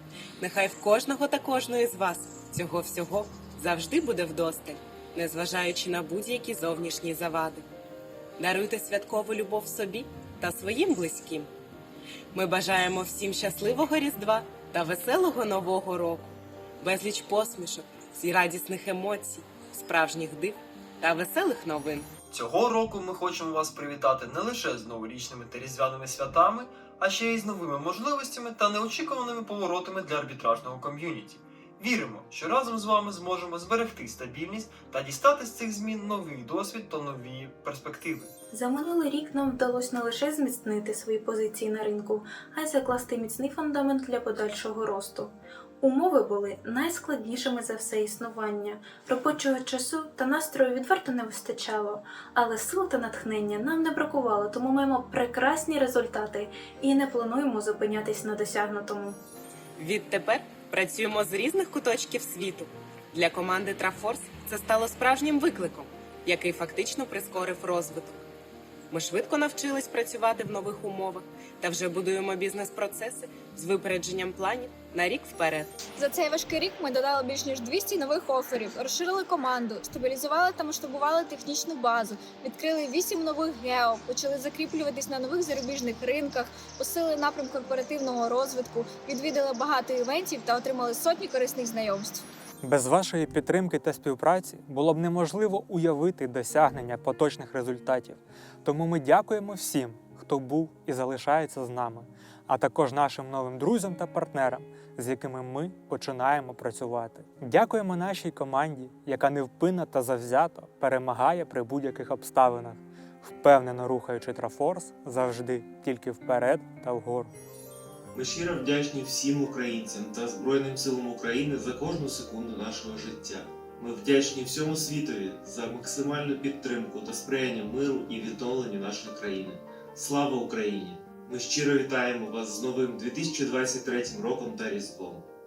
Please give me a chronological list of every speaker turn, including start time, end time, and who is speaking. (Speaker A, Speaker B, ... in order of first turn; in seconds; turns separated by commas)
Speaker A: 0.4-7.7, Speaker A: 8.4-11.5, Speaker A: 12.3-22.1, Speaker B: 22.3-38.3, Speaker C: 38.5-59.2, Speaker A: 59.8-68.2, Speaker A: 68.9-75.7, Speaker D: 76.0-92.2, Speaker E: 92.6-117.3, Speaker F: 118.1-135.2